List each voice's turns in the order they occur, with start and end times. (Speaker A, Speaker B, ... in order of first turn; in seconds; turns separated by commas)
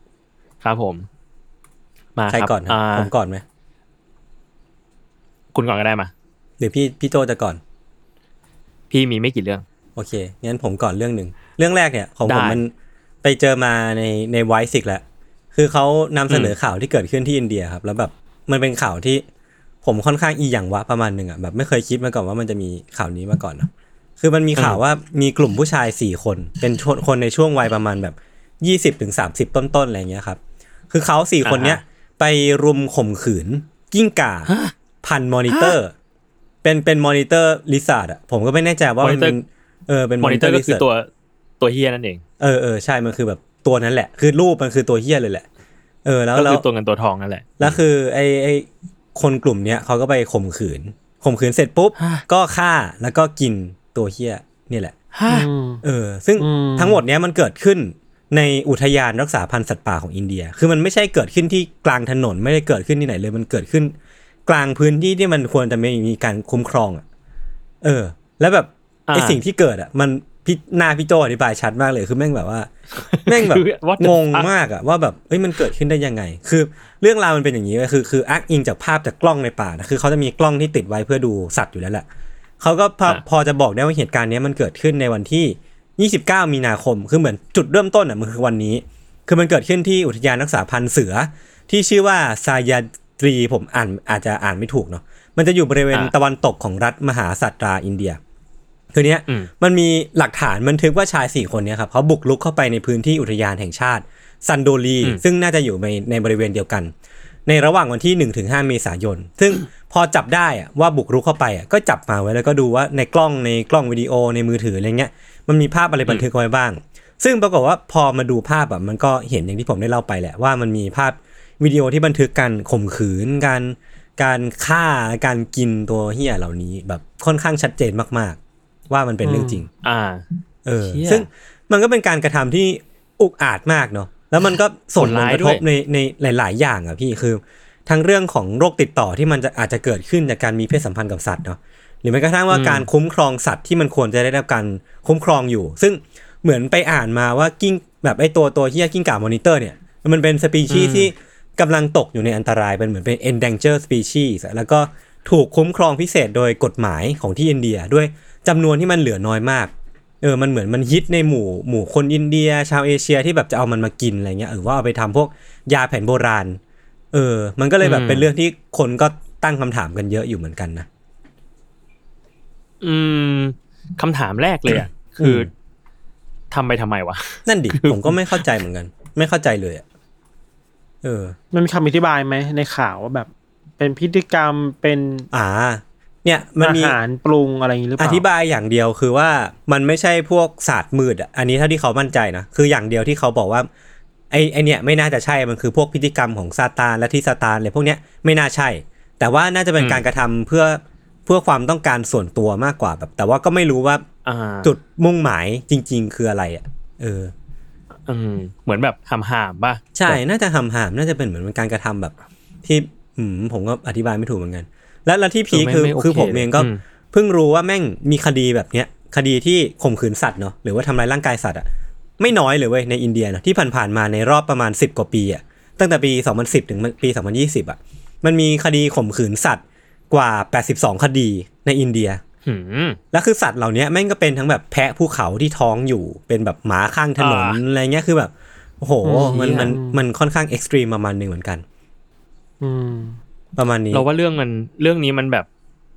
Speaker A: 0.6-1.1, Speaker A: 2.1-3.1, Speaker B: 2.3-3.4, Speaker A: 5.5-6.1, Speaker B: 6.6-7.6, Speaker A: 8.9-9.6, Speaker B: 9.9-19.2, Speaker A: 12.2-12.6, Speaker A: 16.3-16.5, Speaker B: 19.8-30.4, Speaker B: 30.9-34.5, Speaker A: 31.4-31.8, Speaker A: 34.5-34.7, Speaker B: 35.0-35.9, Speaker A: 35.5-35.8, Speaker B: 36.6-40.8, Speaker A: 39.0-39.4, Speaker A: 40.2-41.1, Speaker A: 41.6-42.2, Speaker B: 42.4-45.5, Speaker B: 46.0-46.6, Speaker A: 46.3-47.8, Speaker B: 47.6-54.9, Speaker A: 52.0-52.2, Speaker A: 55.1-55.5, Speaker C: 55.3-55.8, Speaker B: 55.8-63.9, Speaker C: 56.4-57.0, Speaker B: 64.5-67.0, Speaker B: 67.8-72.7, Speaker A: 69.1-69.4, Speaker A: 72.9-74.5, Speaker B: 73.2-82.0, Speaker B: 82.6-98.2, Speaker B: 98.9-106.9, Speaker B: 107.5-128.4, Speaker B: 128.9-129.7, Speaker C: 129.2-129.6, Speaker A: 129.8-130.2, Speaker B: 130.6-166.6, Speaker A: 130.8-131.3, Speaker A: 135.0-135.6, Speaker A: 142.5-142.8, Speaker A: 150.7-151.1, Speaker B: 167.1-170.9, Speaker A: 167.8-168.3, Speaker A: 172.8-175.5, Speaker B: 174.7-175.5, Speaker A: 176.5-178.4, Speaker B: 177.4-179.8, Speaker B: 181.0-181.3, Speaker C: 181.5-183.3, Speaker C: 183.8-185.3, Speaker B: 185.3-186.9, Speaker C: 186.6-188.2, Speaker B: 188.0-193.7, Speaker B: 194.3-204.0, Speaker A: 199.8-200.0, Speaker A: 204.2-204.7, Speaker B: 204.6-207.3, Speaker A: 208.1-210.2, Speaker B: 209.9-221.7, Speaker A: 215.5-216.8, Speaker B: 222.2-232.2, Speaker A: 232.4-233.0, Speaker B: 233.1-241.6, Speaker A: 237.2-237.6, Speaker C: 239.0-240.0, Speaker A: 239.1-239.7, Speaker C: 242.6-243.2, Speaker B: 243.6-244.0, Speaker A: 243.9-245.5